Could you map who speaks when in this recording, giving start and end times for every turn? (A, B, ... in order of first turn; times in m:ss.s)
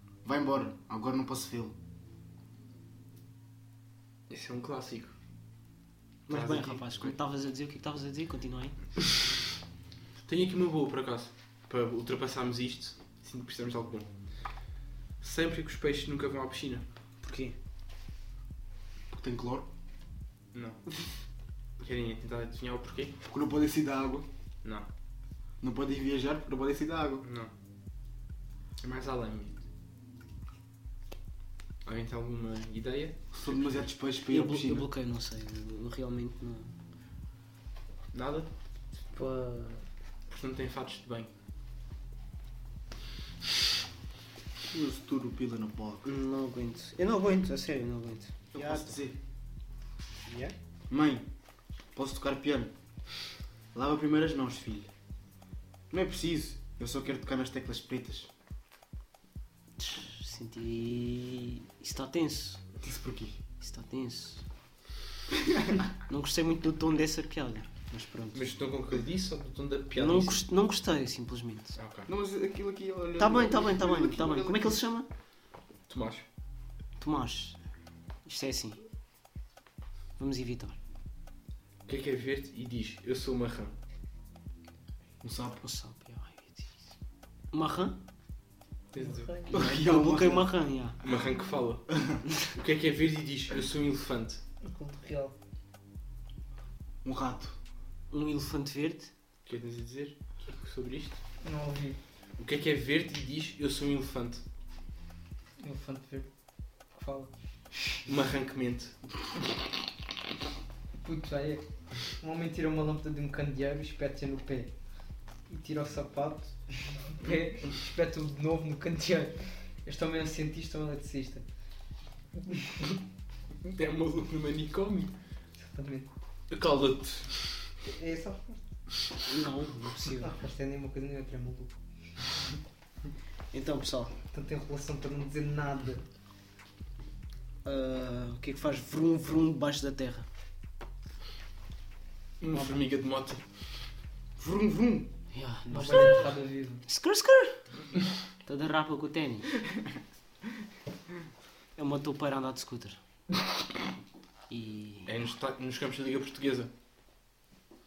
0:00.2-0:01.8 A
0:04.3-0:05.1 B
0:06.3-0:08.8 C
0:06.3-0:07.2 B
0:10.2-0:14.1 B
0:15.2-0:16.8 B
0:17.2-0:17.6 C
0:19.1-0:19.7 A
0:20.5-0:20.8 B
0:21.8-0:23.2 B
0:23.2-0:24.3 A
0:25.6-0:27.2 A
0:27.2-0:27.5 B
0:28.8-0:29.6 B
0:31.8-0:33.8 B
0:33.4-0:34.9 A
0:34.3-0:36.7 C
0:38.1-0:38.5 B
0:39.1-0:39.9 D
0:40.3-0:41.3 B
0:44.7-0:46.1 A
0:46.0-0:49.0 C
0:48.5-0:49.2 A
0:50.3-0:50.6 C
0:50.9-0:51.2 A
0:51.9-0:52.7 A
0:53.7-0:54.9 A
0:55.9-0:58.3 A
0:59.8-1:02.7 C
1:02.8-1:03.4 A
1:03.6-1:04.4 C
1:06.1-1:08.4 C
1:08.3-1:10.4 B
1:10.0-1:11.8 C
1:11.8-1:12.1 B
1:12.1-1:14.8 A
1:13.2-1:15.1 C
1:15.9-1:16.2 B
1:17.0-1:17.6 C
1:18.2-1:18.8 C
1:20.2-1:20.8 C
1:21.9-1:23.8 B
1:25.2-1:25.6 A
1:25.6-1:26.8 C
1:27.5-1:28.0 C
1:28.9-1:29.3 B
1:28.9-1:29.6 D
1:29.5-1:31.0 C
1:29.5-1:30.5 A
1:31.0-1:34.4 B
1:34.6-1:35.3 D
1:37.0-1:37.6 A
1:38.1-1:39.1 C
1:39.5-1:41.2 B
1:41.4-1:42.0 D
1:42.4-1:44.4 B
1:45.6-1:46.3 D
1:46.9-1:47.3 D
1:48.0-1:49.0 B
1:51.0-1:54.7 D
1:55.5-2:01.4 D
2:03.6-2:05.1 B
2:05.6-2:06.1 D
2:06.5-2:07.7 B
2:07.9-2:08.6 D
2:09.2-2:10.4 C
2:10.2-2:11.7 D
2:13.5-2:14.1 C
2:14.3-2:16.0 D
2:17.6-2:20.3 C
2:22.4-2:23.6 B
2:24.4-2:25.1 A
2:25.3-2:26.3 C
2:25.7-2:26.8 D
2:26.8-2:27.6 C
2:28.4-2:29.5 C
2:31.8-2:33.0 C
2:34.5-2:35.1 C
2:35.1-2:36.7 B